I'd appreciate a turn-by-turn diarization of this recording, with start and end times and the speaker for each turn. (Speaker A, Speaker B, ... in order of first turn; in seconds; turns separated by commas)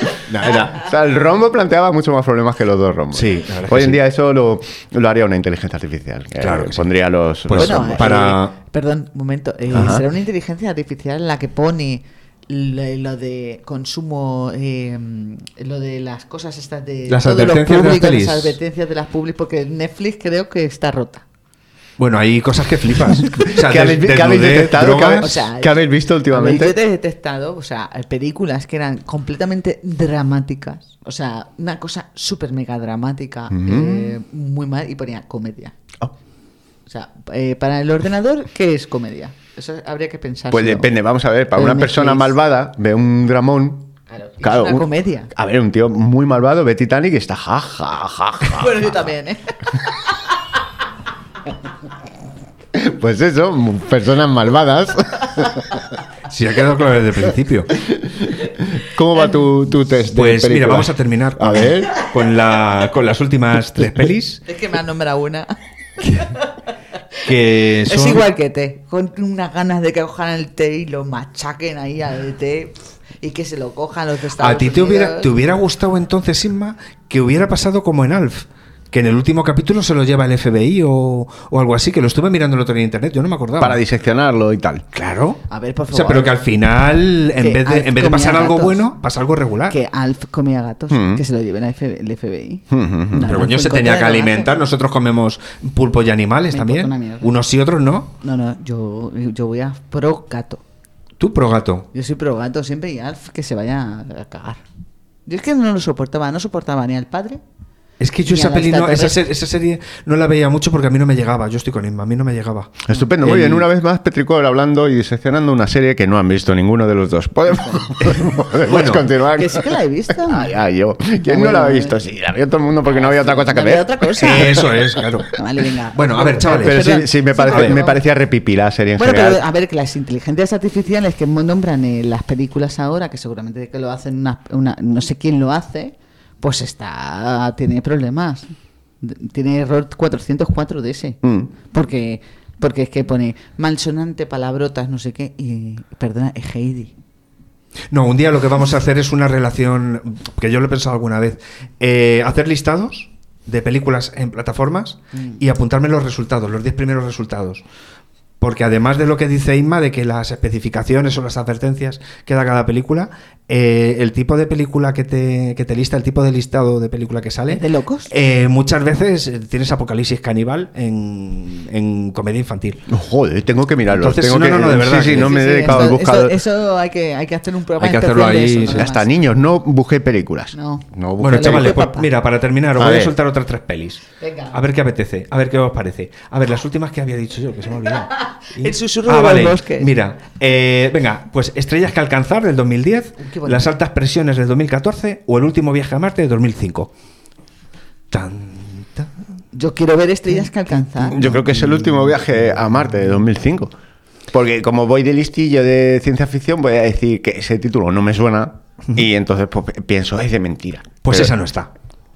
Speaker A: 0.3-0.7, Speaker B: 0.4-8.1, Speaker A: 3.1-4.0, Speaker A: 6.4-6.8, Speaker A: 7.5-8.5, Speaker C: 7.5-21.2, Speaker B: 9.7-10.0, Speaker A: 17.1-18.6, Speaker A: 22.0-25.3, Speaker B: 23.5-26.8, Speaker C: 25.2-35.7, Speaker B: 33.5-34.1, Speaker C: 36.9-40.9, Speaker B: 40.5-43.9, Speaker C: 41.5-42.4, Speaker C: 44.1-45.3, Speaker B: 44.4-48.8, Speaker C: 48.5-49.6, Speaker B: 52.7-55.8, Speaker A: 56.3-57.7, Speaker B: 58.0-62.0, Speaker A: 60.1-64.4, Speaker C: 64.5-65.5, Speaker C: 66.0-66.4, Speaker A: 67.2-68.2, Speaker C: 67.9-75.3, Speaker A: 74.4-83.8, Speaker B: 83.6-84.8, Speaker A: 84.9-85.4, Speaker C: 85.5-86.4, Speaker A: 85.9-89.8, Speaker C: 87.4-88.9, Speaker C: 89.7-94.5, Speaker B: 90.9-91.2, Speaker B: 92.7-93.4, Speaker A: 93.3-98.1, Speaker C: 96.5-97.3, Speaker C: 98.2-100.6, Speaker A: 101.2-101.8, Speaker C: 101.9-104.6, Speaker C: 105.3-107.4, Speaker A: 108.0-113.6, Speaker C: 108.2-109.2, Speaker B: 112.9-119.6, Speaker A: 118.7-119.0, Speaker C: 119.4-120.5, Speaker B: 120.2-123.9, Speaker C: 121.2-121.9, Speaker C: 122.9-124.6, Speaker A: 124.2-125.3, Speaker C: 125.3-128.0, Speaker A: 125.9-126.9, Speaker B: 126.6-129.4, Speaker A: 127.5-127.8, Speaker C: 129.0-138.5, Speaker C: 139.0-141.2, Speaker B: 141.2-141.5, Speaker C: 141.7-146.9, Speaker A: 147.9-157.6, Speaker C: 155.1-155.4, Speaker A: 158.4-172.8, Speaker C: 167.5-168.1, Speaker B: 172.9-176.3, Speaker A: 173.9-175.7, Speaker C: 175.1-179.1, Speaker A: 177.8-178.9, Speaker B: 178.7-181.8, Speaker C: 180.5-182.1, Speaker A: 181.2-196.9, Speaker B: 182.8-183.1, Speaker C: 184.2-184.6, Speaker C: 188.6-189.9, Speaker C: 193.2-193.7, Speaker A: 198.1-199.1, Speaker C: 199.5-201.3, Speaker B: 201.0-203.7, Speaker B: 204.3-211.3, Speaker A: 211.0-211.7